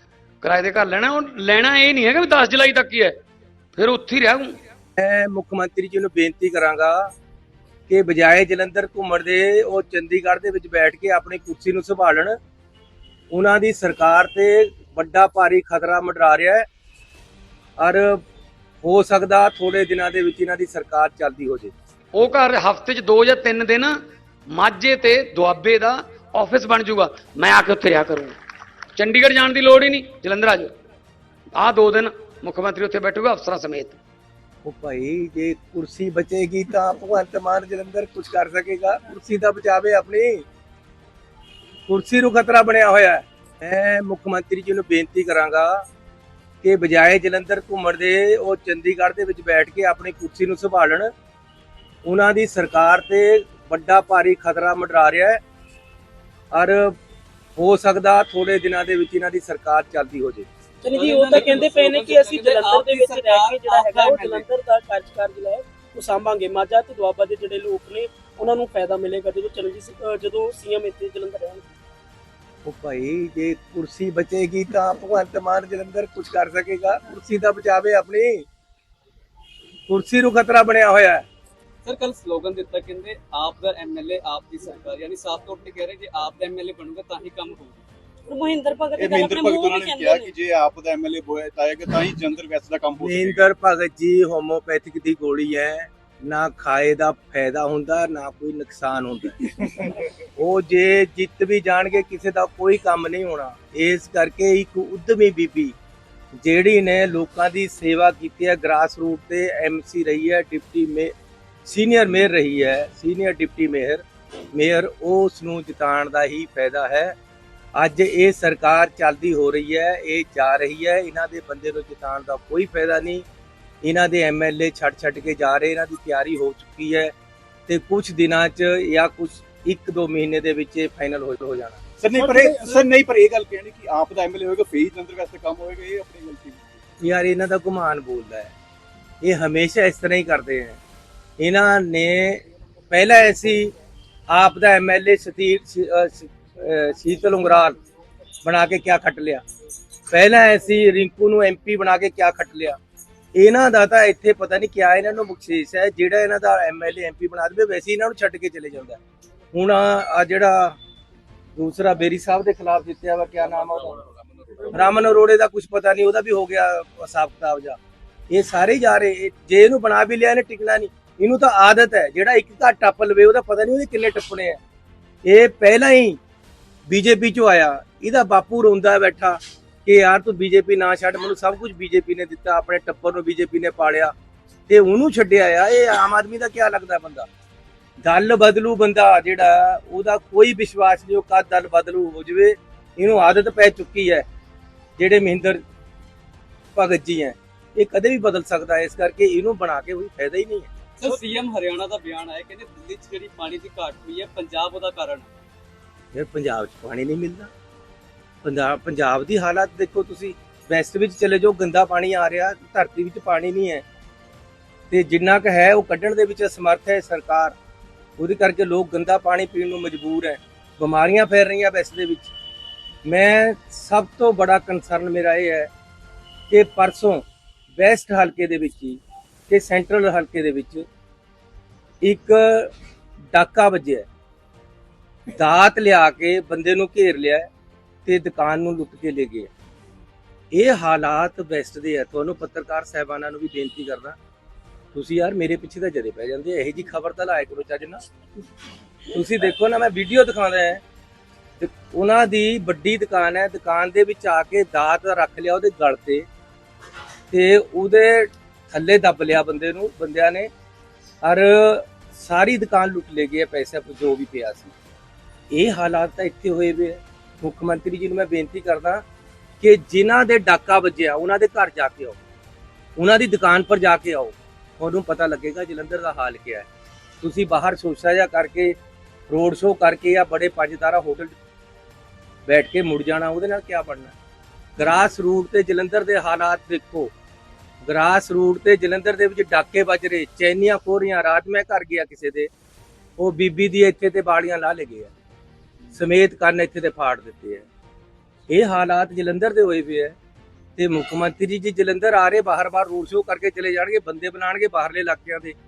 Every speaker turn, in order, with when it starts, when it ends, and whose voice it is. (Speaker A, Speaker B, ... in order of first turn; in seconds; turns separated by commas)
Speaker A: 0.4-3.1, Speaker A: 3.8-4.6, Speaker B: 5.0-7.1, Speaker B: 7.9-12.3, Speaker B: 13.3-16.6, Speaker B: 17.8-18.2, Speaker B: 18.8-21.7, Speaker A: 22.1-23.9, Speaker A: 24.5-28.3, Speaker A: 28.9-30.7, Speaker A: 31.5-34.0, Speaker B: 34.6-40.4, Speaker B: 41.9-45.8, Speaker B: 46.6-51.1, Speaker B: 52.0-55.4, Speaker B: 56.5-57.0, Speaker B: 57.6-60.5, Speaker C: 60.8-71.6, Speaker D: 60.9-64.4, Speaker B: 72.6-78.4, Speaker B: 79.9-81.2, Speaker D: 81.8-87.8, Speaker C: 88.3-90.3, Speaker E: 89.0-93.5, Speaker B: 93.0-99.5, Speaker B: 100.4-105.7, Speaker B: 106.3-111.1, Speaker B: 111.7-117.1, Speaker B: 117.7-123.2, Speaker B: 123.8-127.1, Speaker B: 127.7-131.8, Speaker E: 132.0-136.8, Speaker C: 132.2-132.8, Speaker B: 137.0-138.5, Speaker B: 139.2-140.8, Speaker B: 141.4-143.7, Speaker B: 144.3-147.8, Speaker B: 148.4-149.4, Speaker B: 150.1-152.8, Speaker B: 153.3-159.0, Speaker B: 159.5-160.8, Speaker B: 161.6-164.0, Speaker B: 164.7-167.8, Speaker B: 168.3-174.6, Speaker B: 175.2-176.2, Speaker B: 176.9-184.1, Speaker B: 184.7-187.3, Speaker B: 188.0-194.2, Speaker B: 195.0-195.6, Speaker B: 196.7-200.7, Speaker D: 201.0-205.3, Speaker B: 206.1-207.5, Speaker B: 208.4-213.8, Speaker B: 214.9-217.5, Speaker B: 218.2-222.3, Speaker B: 223.1-225.7, Speaker B: 226.5-227.2, Speaker B: 227.8-230.8, Speaker B: 232.0-232.7, Speaker B: 233.3-234.1, Speaker B: 235.3-237.5, Speaker B: 238.1-239.5, Speaker B: 240.5-244.2, Speaker B: 244.9-248.0, Speaker B: 249.1-250.8, Speaker B: 251.6-256.2, Speaker B: 257.3-260.5, Speaker B: 261.2-264.7, Speaker B: 265.5-269.0, Speaker B: 269.6-272.2, Speaker B: 273.0-276.7, Speaker B: 277.2-278.8, Speaker B: 279.3-281.3, Speaker B: 282.4-284.1, Speaker B: 284.8-287.1, Speaker B: 287.9-292.5, Speaker B: 293.2-295.1, Speaker B: 295.9-297.6, Speaker B: 298.5-300.1, Speaker B: 300.8-305.5